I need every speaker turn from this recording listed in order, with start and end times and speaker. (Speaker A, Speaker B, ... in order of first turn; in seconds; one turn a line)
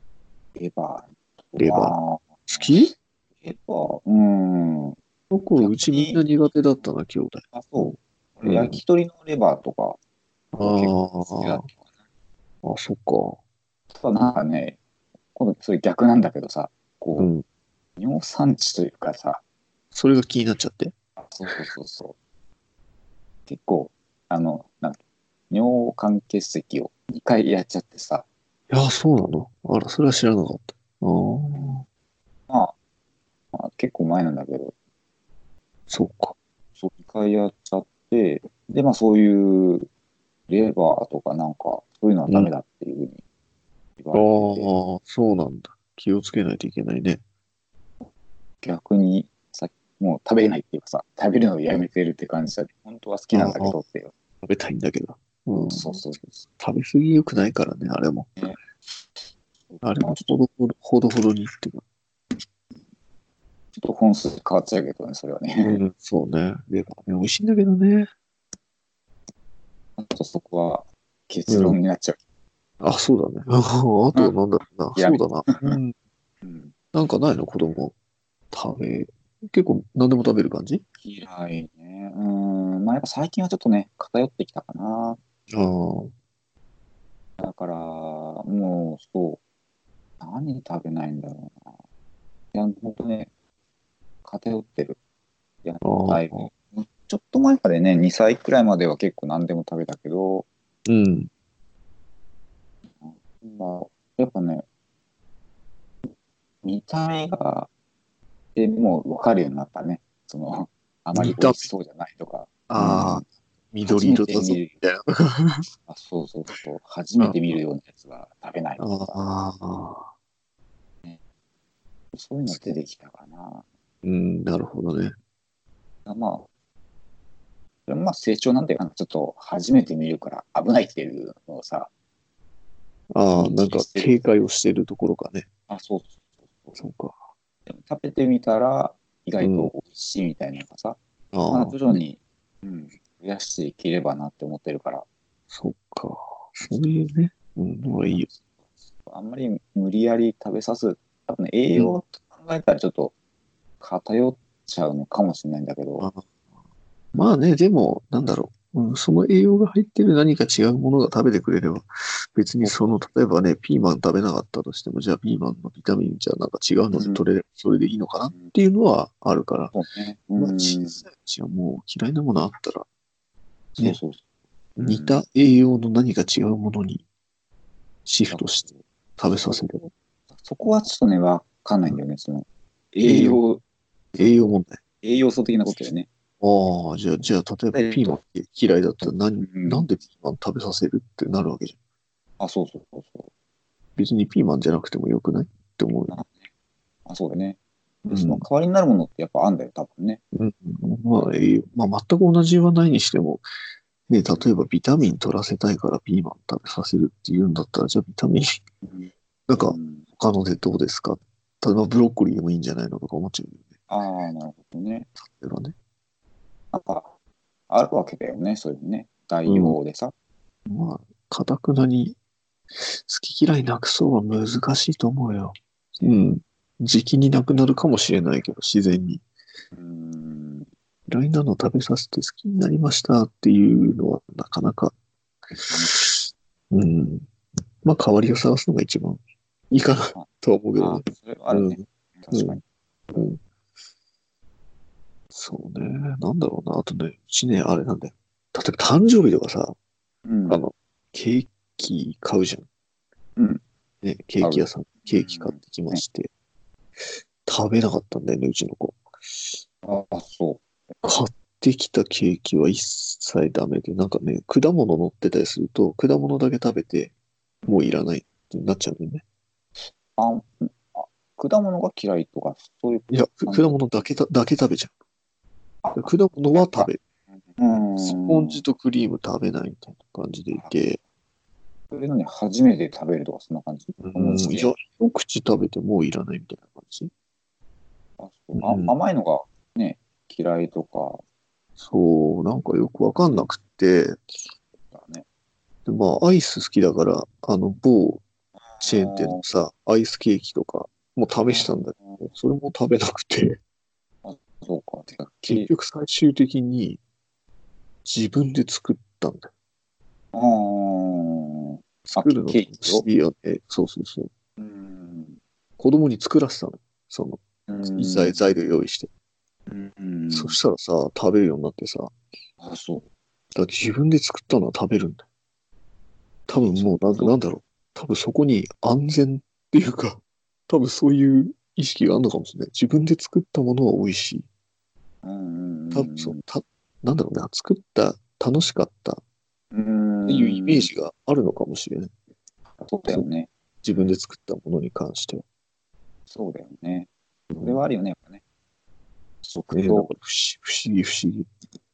Speaker A: 0.6-2.8
Speaker B: 1.6-2.0
Speaker B: 2.5-2.9
Speaker A: 3.4-5.0
Speaker B: 5.3-8.8
Speaker A: 5.6-6.2
Speaker A: 7.5-10.0
Speaker B: 10.5-11.7
Speaker A: 10.6-11.8
Speaker B: 12.6-13.4
Speaker A: 13.9-14.8
Speaker A: 15.3-17.3
Speaker B: 17.2-17.4
Speaker A: 18.0-19.4
Speaker B: 19.9-20.9
Speaker A: 21.2-22.1
Speaker A: 23.5-28.2
Speaker B: 28.7-31.8
Speaker A: 31.5-31.8
Speaker A: 32.5-32.7
Speaker A: 33.5-34.7
Speaker B: 35.9-36.4
Speaker A: 36.8-39.9
Speaker A: 40.5-43.2
Speaker A: 44.0-44.7
Speaker B: 44.1-47.2
Speaker A: 48.6-54.1
Speaker B: 53.3-53.8
Speaker B: 54.4-56.0
Speaker A: 55.7-56.4
Speaker B: 56.6-58.4
Speaker A: 59.7-60.3
Speaker B: 59.8-61.8
Speaker A: 63.8-65.8
Speaker B: 65.6-68.1
Speaker A: 70.0-72.2
Speaker B: 71.5-71.8
Speaker B: 72.8-75.9
Speaker A: 74.9-75.8
Speaker A: 76.4-76.7
Speaker B: 76.9-77.9
Speaker B: 78.5-80.8
Speaker A: 81.0-85.2
Speaker B: 85.5-86.1
Speaker A: 87.4-89.4
Speaker A: 90.2-91.7
Speaker A: 92.5-93.3
Speaker A: 94.2-95.0
Speaker A: 95.6-100.5
Speaker B: 95.8-96.5
Speaker B: 100.8-101.3
Speaker A: 103.0-104.6
Speaker A: 106.6-107.7
Speaker A: 108.5-113.2
Speaker B: 111.1-111.7
Speaker B: 112.7-115.7
Speaker A: 113.8-114.7
Speaker A: 115.9-119.2
Speaker B: 117.2-117.6
Speaker B: 118.8-120.1
Speaker A: 122.1-123.6
Speaker B: 122.5-122.8
Speaker B: 124.0-125.1
Speaker A: 126.0-126.5
Speaker A: 127.9-131.9
Speaker B: 133.1-135.5
Speaker A: 133.3-134.2
Speaker A: 135.7-136.8
Speaker B: 136.8-137.2
Speaker A: 137.7-141.0
Speaker B: 139.4-139.7
Speaker B: 141.3-142.0
Speaker A: 141.5-145.0
Speaker B: 145.5-148.3
Speaker A: 147.9-148.3
Speaker A: 149.1-153.1
Speaker A: 153.8-156.1
Speaker B: 156.0-156.3
Speaker B: 157.1-169.7
Speaker A: 162.6-162.9
Speaker A: 166.9-167.2
Speaker A: 169.7-171.0
Speaker B: 170.3-172.9
Speaker A: 173.8-174.2
Speaker A: 174.8-175.2
Speaker B: 174.8-177.0
Speaker B: 178.1-179.9
Speaker A: 180.4-183.6
Speaker B: 183.0-183.4
Speaker B: 184.1-184.8
Speaker A: 185.0-186.1
Speaker B: 186.4-191.8
Speaker A: 187.7-188.2
Speaker A: 189.0-189.9
Speaker A: 192.4-193.3
Speaker B: 194.0-196.1
Speaker A: 196.1-196.5
Speaker A: 197.1-200.2
Speaker B: 198.1-198.5
Speaker B: 200.3-203.5
Speaker B: 204.1-208.6
Speaker A: 208.8-210.1
Speaker B: 209.5-213.7
Speaker A: 213.9-215.1
Speaker B: 215.2-215.7
Speaker A: 216.7-217.1
Speaker A: 217.7-220.1
Speaker B: 219.4-219.8
Speaker B: 220.7-222.2
Speaker B: 222.7-229.2
Speaker A: 229.7-230.7
Speaker B: 231.1-234.9
Speaker B: 235.5-237.3
Speaker A: 235.7-236.0
Speaker B: 237.8-241.8
Speaker A: 240.1-242.6
Speaker B: 242.3-242.6
Speaker B: 243.1-243.4
Speaker B: 245.3-249.8
Speaker A: 250.2-250.6
Speaker B: 250.5-252.7
Speaker A: 253.3-253.6
Speaker B: 254.0-256.3
Speaker A: 254.4-256.0
Speaker B: 257.1-259.6
Speaker A: 259.8-260.7
Speaker B: 261.0-267.1
Speaker B: 267.6-269.2
Speaker A: 270.1-273.8
Speaker B: 273.1-274.9
Speaker A: 275.8-276.9
Speaker B: 275.9-277.0
Speaker A: 277.6-278.6
Speaker B: 278.0-281.0
Speaker A: 280.5-280.8
Speaker A: 281.9-284.7
Speaker B: 284.0-287.1
Speaker A: 288.2-291.2
Speaker B: 288.6-288.9
Speaker B: 291.8-294.2
Speaker A: 293.2-293.5
Speaker A: 294.9-295.2
Speaker B: 295.9-298.2
Speaker A: 298.7-299.4
Speaker B: 298.8-303.6
Speaker A: 301.4-302.3
Speaker A: 304.2-305.7
Speaker B: 305.5-307.0
Speaker B: 308.1-309.5
Speaker A: 310.3-313.1
Speaker B: 312.1-314.3
Speaker A: 314.6-315.4
Speaker B: 315.8-319.1
Speaker A: 317.7-318.4
Speaker A: 319.7-320.6
Speaker B: 320.3-322.1
Speaker A: 322.6-323.0
Speaker B: 323.5-325.2
Speaker B: 326.5-334.5
Speaker A: 326.5-327.3
Speaker A: 335.2-336.4
Speaker B: 335.9-339.2
Speaker A: 339.7-340.9
Speaker B: 340.3-342.1
Speaker A: 342.8-344.1
Speaker B: 343.8-345.4
Speaker A: 346.3-348.4
Speaker B: 347.5-347.8
Speaker A: 349.4-350.1
Speaker B: 349.7-351.5